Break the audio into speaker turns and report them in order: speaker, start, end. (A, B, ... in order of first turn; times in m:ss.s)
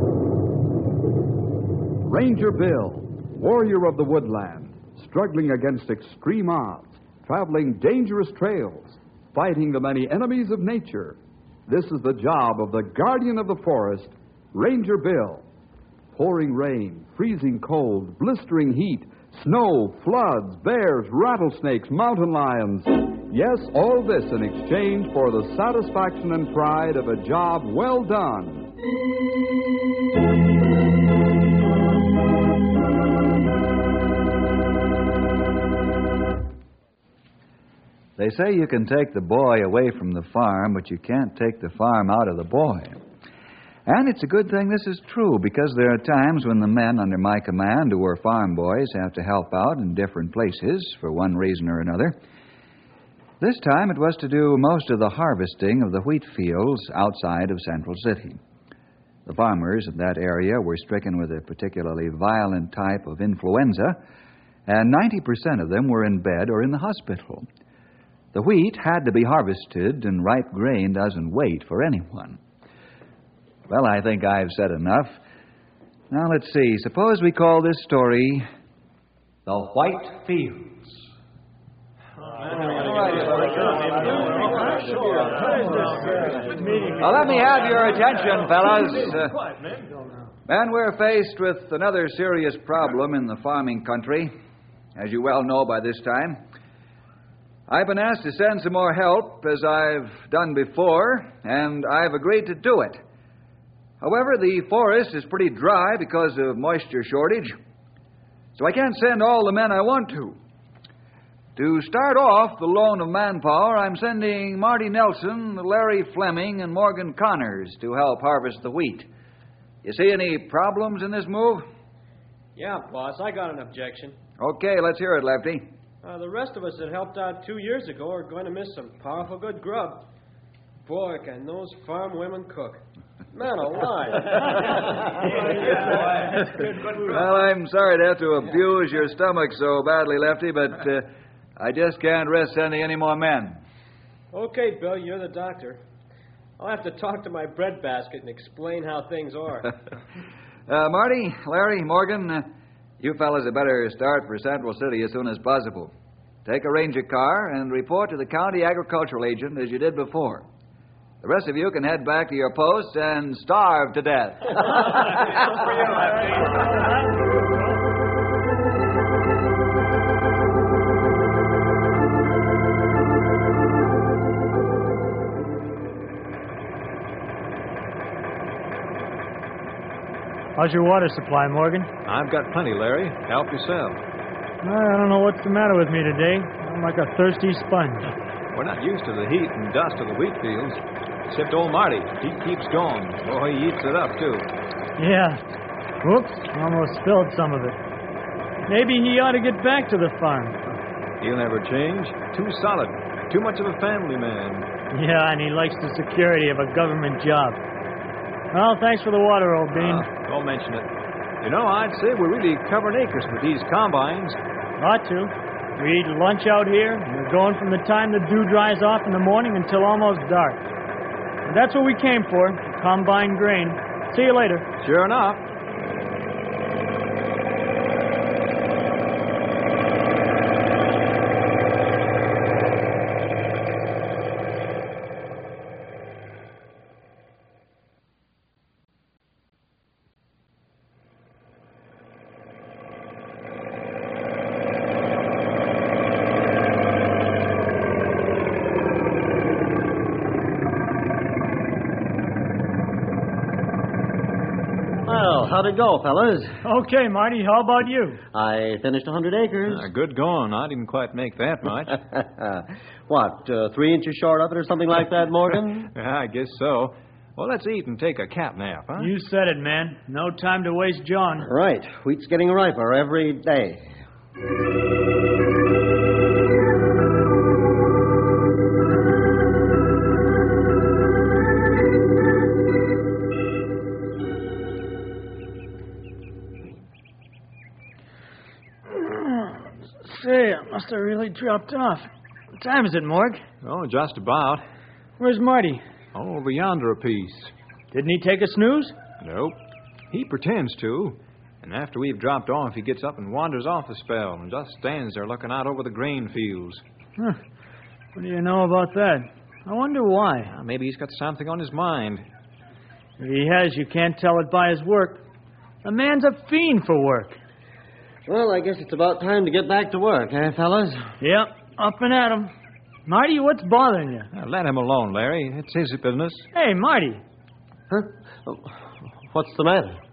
0:02.1-0:15.4 A
0:16.1-0:28.7 A
0:38.2-0:43.0 B
0:43.9-0:52.2 B
0:53.4-0:58.4 B
0:59.3-1:04.0 B
1:04.7-1:07.5 B
1:08.3-1:12.4 B
1:13.7-1:15.2 B
1:16.1-1:18.5 B
1:19.4-1:21.0 B
1:22.7-1:24.6 C
1:22.7-1:24.6 B
1:23.7-1:26.6 D
1:25.4-1:27.8 E
1:27.0-1:29.4 B
1:30.5-1:34.3 B
1:35.0-1:36.4 B
1:37.7-1:43.0 B
1:44.0-1:47.6 B
1:48.6-1:50.4 B
1:51.6-1:59.1 B
1:59.8-2:01.7 B
2:02.6-2:04.2 D
2:04.4-2:05.7 B
2:06.0-2:10.1 D
2:10.8-2:17.4 D
2:17.0-2:23.6 B
2:24.3-2:25.8 D
2:26.6-2:29.9 D
2:30.7-2:35.9 B
2:36.4-2:40.5 B
2:41.2-2:44.9 B
2:44.7-2:47.9 E
3:00.6-3:01.9 E
3:02.0-3:04.0 C
3:04.6-3:08.1 E
3:08.5-3:14.5 C
3:15.0-3:15.4 E
3:16.0-3:17.8 E
3:18.7-3:20.6 E
3:21.2-3:24.7 C
3:24.9-3:27.6 E
3:28.5-3:30.1 E
3:29.7-3:30.9 C
3:31.4-3:34.4 C
3:34.8-3:40.6 E
3:41.4-3:44.7 E
3:44.8-3:45.5 C
4:15.0-4:16.6 F
4:16.6-4:18.2 E
4:18.3-4:19.9 F
4:19.7-4:22.0 C
4:22.0-4:25.9 F
4:25.9-4:29.1 C
4:29.0-4:31.5 E
4:31.4-4:34.0 F
4:48.9-4:53.4 E
4:53.6-4:54.6 C
4:55.2-4:55.8 E
4:56.1-4:57.5 C
4:57.9-4:59.0 E
4:59.2-5:06.8 C
5:08.2-5:10.5 E
5:10.5-5:12.2 C
5:13.2-5:15.2 E
5:15.8-5:17.4 E
5:18.3-5:21.1 F
5:21.2-5:22.5 E
5:23.1-5:24.3 E
5:24.3-5:26.5 C
5:26.6-5:27.2 E
5:27.9-5:30.0 F